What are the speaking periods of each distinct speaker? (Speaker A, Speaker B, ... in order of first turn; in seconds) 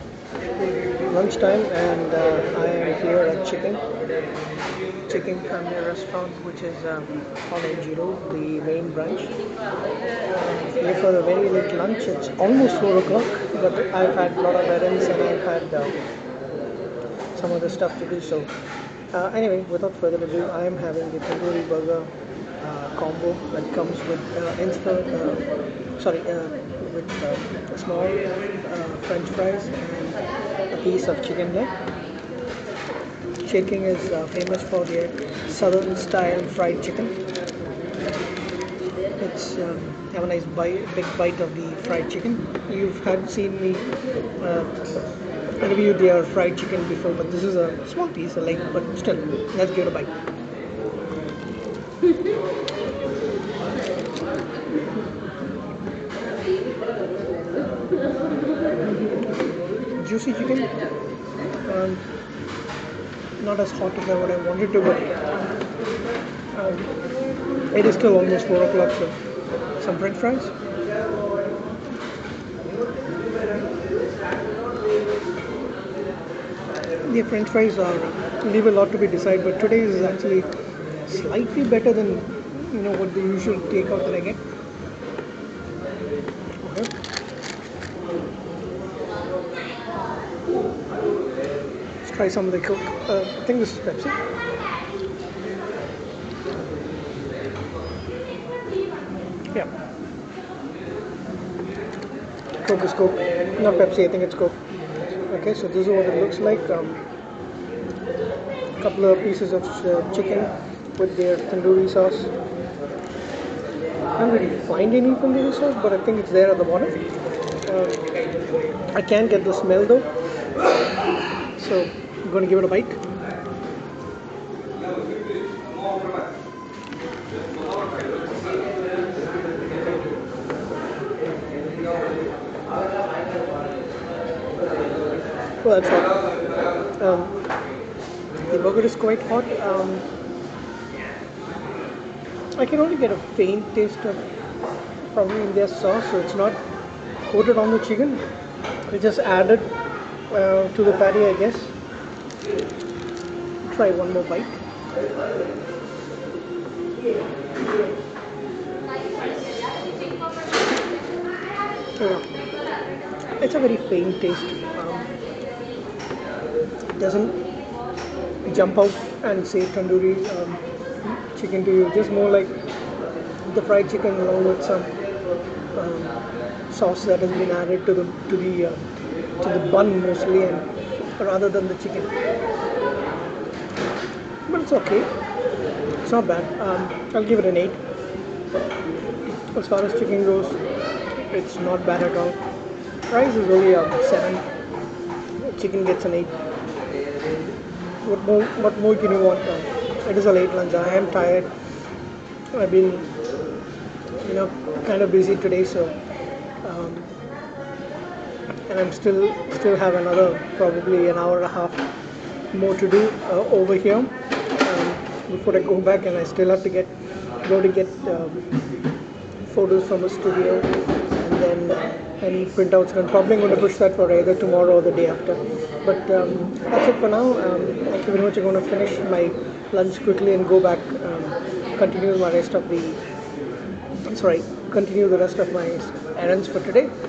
Speaker A: 1.0-3.8, 5.1-9.3, 10.5-16.0, 17.4-18.5, 19.1-25.4, 26.0-31.7, 33.5-37.2, 39.2-44.8, 45.6-50.1, 60.0-60.8, 61.7-62.0, 63.4-65.1, 66.5-67.0, 67.7-69.2, 69.8-70.5, 77.0-80.5, 81.0-84.4, 86.6-86.9, 92.0-94.2, 102.6-104.6, 105.3-107.0, 108.8-112.3, 114.2-117.0, 117.7-118.0, 118.9-120.1, 121.6-123.0, 135.6-136.2, 137.0-137.3, 138.4-140.1, 142.6-144.2, 145.1-146.6, 147.3-148.2, 148.9-149.7, 150.3-151.7, 153.6-154.6, 162.0-162.3, 163.4-165.1, 166.9-167.4, 168.5-172.5, 173.5-174.9, 175.7-176.2, 176.7-178.9, 179.4-182.2, 184.5-185.1, 186.0-187.8, 189.5-190.6, 191.3-192.4, 193.1-194.4, 195.4-196.4, 198.0-201.5, 202.5-203.1, 204.2-206.0, 206.6-207.1, 208.7-211.8, 212.5-216.9, 217.4-218.4, 219.5-233.0, 234.1-236.9